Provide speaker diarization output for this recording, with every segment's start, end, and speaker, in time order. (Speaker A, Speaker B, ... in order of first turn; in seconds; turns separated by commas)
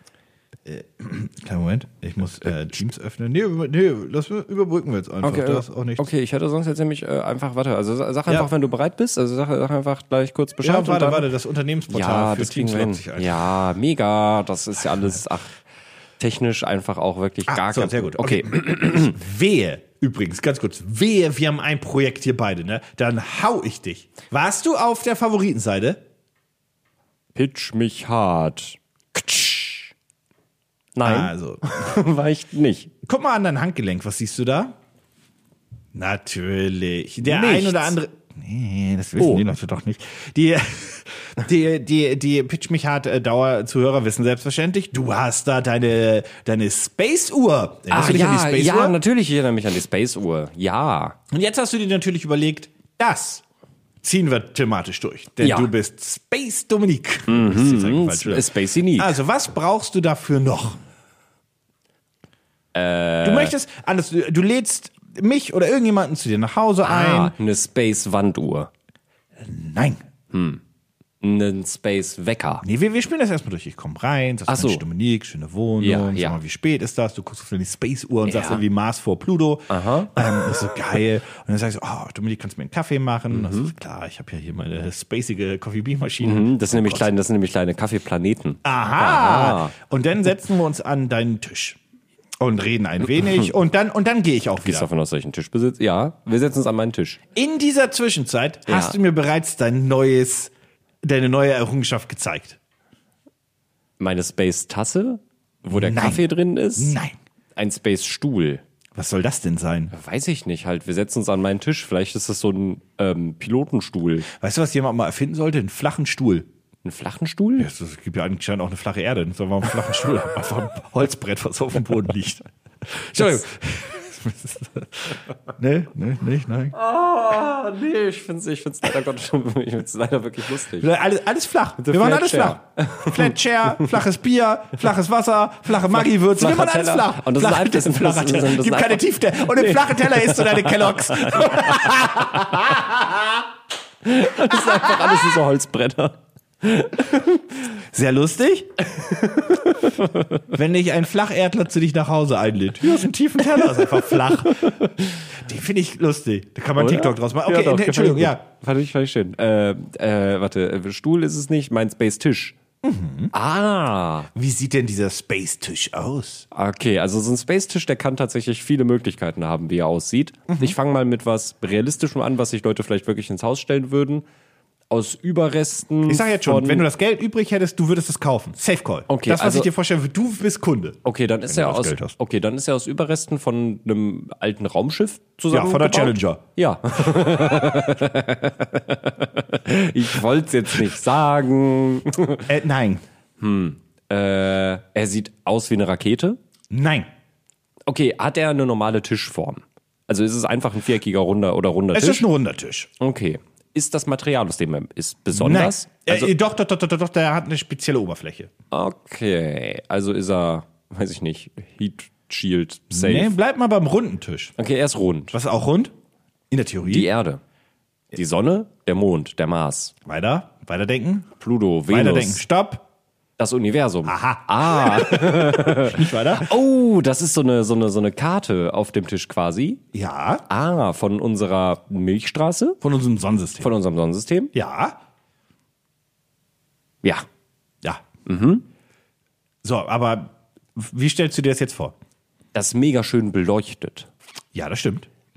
Speaker A: 0.7-6.1, Speaker B: 5.2-11.3, Speaker A: 10.6-13.5, Speaker B: 11.9-15.6, Speaker B: 16.2-19.2, Speaker A: 17.5-26.0, Speaker B: 27.4-29.9, Speaker B: 30.9-32.9, Speaker A: 31.0-31.6, Speaker A: 33.0-34.8, Speaker A: 35.9-49.0, Speaker B: 37.2-38.0, Speaker B: 39.2-39.5, Speaker B: 47.9-51.2, Speaker A: 51.3-53.4, Speaker A: 54.0-60.8, Speaker B: 55.4-55.7, Speaker B: 57.3-59.2, Speaker B: 62.7-63.5, Speaker A: 63.2-67.3, Speaker B: 66.8-68.7, Speaker A: 69.4-70.0, Speaker B: 70.3-70.6, Speaker B: 71.2-72.6, Speaker A: 72.6-87.1, Speaker B: 74.5-74.8, Speaker B: 75.8-76.4, Speaker B: 78.3-78.6, Speaker B: 79.7-80.5, Speaker B: 83.3-83.7, Speaker B: 86.2-89.8, Speaker A: 88.6-91.8, Speaker A: 92.4-94.9, Speaker B: 93.2-93.5, Speaker B: 94.6-97.2, Speaker A: 97.3-102.6, Speaker B: 98.7-99.0, Speaker B: 104.0-107.0, Speaker A: 105.7-106.2, Speaker A: 106.8-107.2, Speaker B: 107.6-108.6, Speaker A: 109.0-109.9, Speaker B: 109.9-114.3, Speaker A: 114.3-116.5, Speaker B: 116.8-117.7, Speaker A: 117.6-126.8, Speaker B: 126.7-130.9, Speaker A: 130.7-143.4, Speaker B: 131.8-134.0, Speaker B: 136.0-142.8, Speaker B: 144.0-147.6, Speaker A: 144.5-145.3, Speaker A: 147.9-148.8, Speaker B: 149.0-150.5, Speaker A: 150.5-158.4, Speaker B: 153.5-155.3, Speaker B: 156.8-162.6, Speaker A: 162.8-163.3, Speaker B: 163.3-164.3, Speaker A: 164.3-166.5, Speaker B: 166.5-174.2, Speaker A: 170.5-170.8, Speaker B: 174.9-176.9, Speaker A: 176.1-182.2, Speaker B: 179.1-179.7, Speaker B: 181.0-192.5, Speaker A: 185.5-186.4, Speaker A: 192.5-193.0, Speaker B: 193.4-196.4, Speaker A: 196.7-197.1, Speaker B: 197.9-202.3, Speaker A: 201.9-202.9, Speaker B: 203.0-206.3, Speaker A: 205.3-208.5, Speaker B: 208.7-213.3, Speaker A: 212.9-214.6, Speaker B: 214.6-215.3, Speaker A: 215.3-215.9, Speaker A: 216.5-217.1, Speaker B: 216.8-217.4, Speaker B: 218.1-219.9, Speaker A: 220.1-221.3, Speaker B: 221.4-222.4, Speaker A: 221.9-222.9, Speaker B: 223.4-229.8, Speaker A: 224.1-226.5, Speaker A: 229.9-230.4, Speaker B: 230.5-232.8, Speaker A: 232.8-233.7, Speaker B: 233.6-234.5, Speaker A: 234.5-235.0, Speaker B: 238.2-238.7, Speaker A: 239.6-241.9, Speaker B: 242.5-244.1, Speaker A: 244.5-245.1